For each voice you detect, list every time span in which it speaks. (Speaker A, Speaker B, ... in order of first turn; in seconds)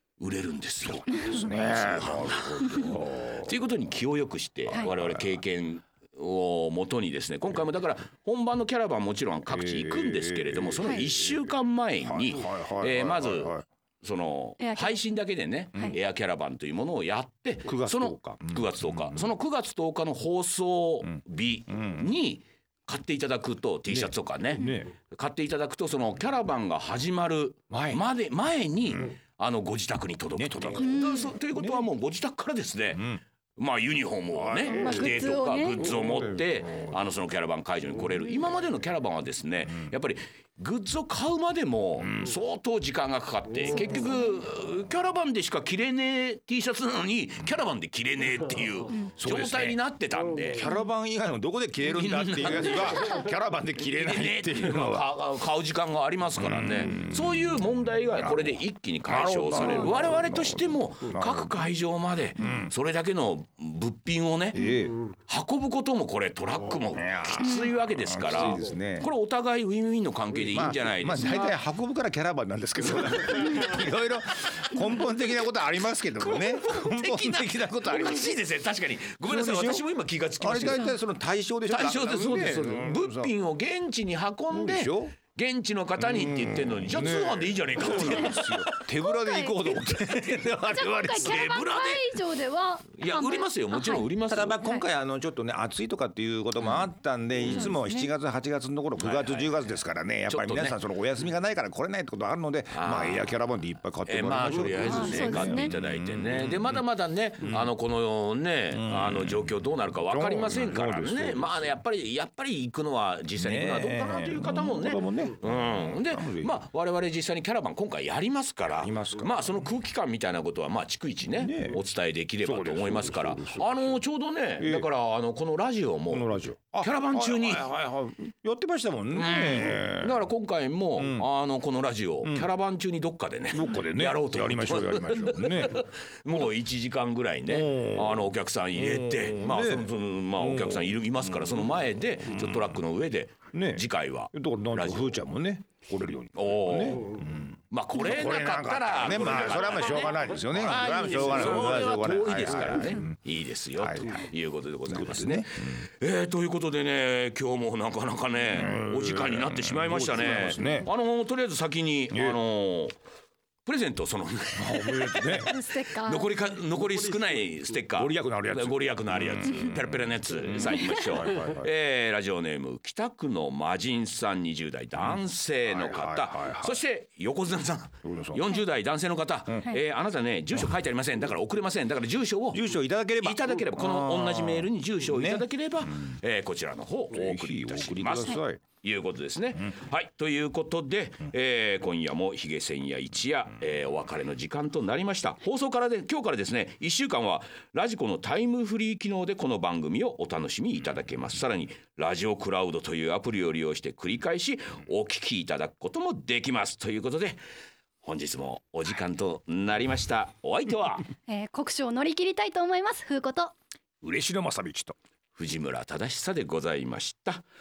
Speaker A: 0.2-50.7, 51.8-53.1, 53.8-64.6, 65.3-71.5, 73.0-73.6, 76.2-81.0, 81.7-88.9, 91.2-92.2, 93.0-94.7, 97.4-97.7, 99.0-100.8, 102.7-103.4, 104.0-127.7, 129.1-145.2, 146.3-162.9, 163.7-182.6, 183.2-207.4, 208.0-211.1, 215.3-217.4
Speaker B: 1.0-3.5, 4.7-5.4, 9.5-13.6, 17.6-19.3, 21.7-22.1, 23.9-24.9, 27.7-28.0, 30.4-31.9, 32.9-33.2, 34.3-35.2, 35.9-36.9, 42.0-42.3, 49.2-49.8, 50.5-55.1, 56.4-61.5, 62.4-62.7, 64.5-65.0, 66.9-69.1, 70.5-78.3, 79.2-79.9, 80.4-83.3, 84.5-85.2, 86.0-91.4, 94.3-106.8, 108.7-111.7, 113.4-116.6, 118.8-119.5, 121.3-121.8, 122.4-124.0, 124.6-124.9, 126.1-130.3, 130.9-131.3, 132.2-132.5, 133.5-135.8, 137.4-141.6, 142.3-142.7, 143.5-153.2, 153.8-154.2, 154.8-155.8, 158.5-160.9, 162.1-162.4, 164.6-165.5, 167.9-171.7, 174.9-176.8, 178.0-178.4, 179.5-179.8, 182.5-185.5, 187.1-188.6, 214.0-214.9
Speaker C: 14.6-15.0, 30.8-31.3, 34.7-35.8, 89.0-89.8, 90.6-94.0, 97.5-98.1, 104.8-105.7, 165.4-166.3, 170.6-171.0, 211.3-213.5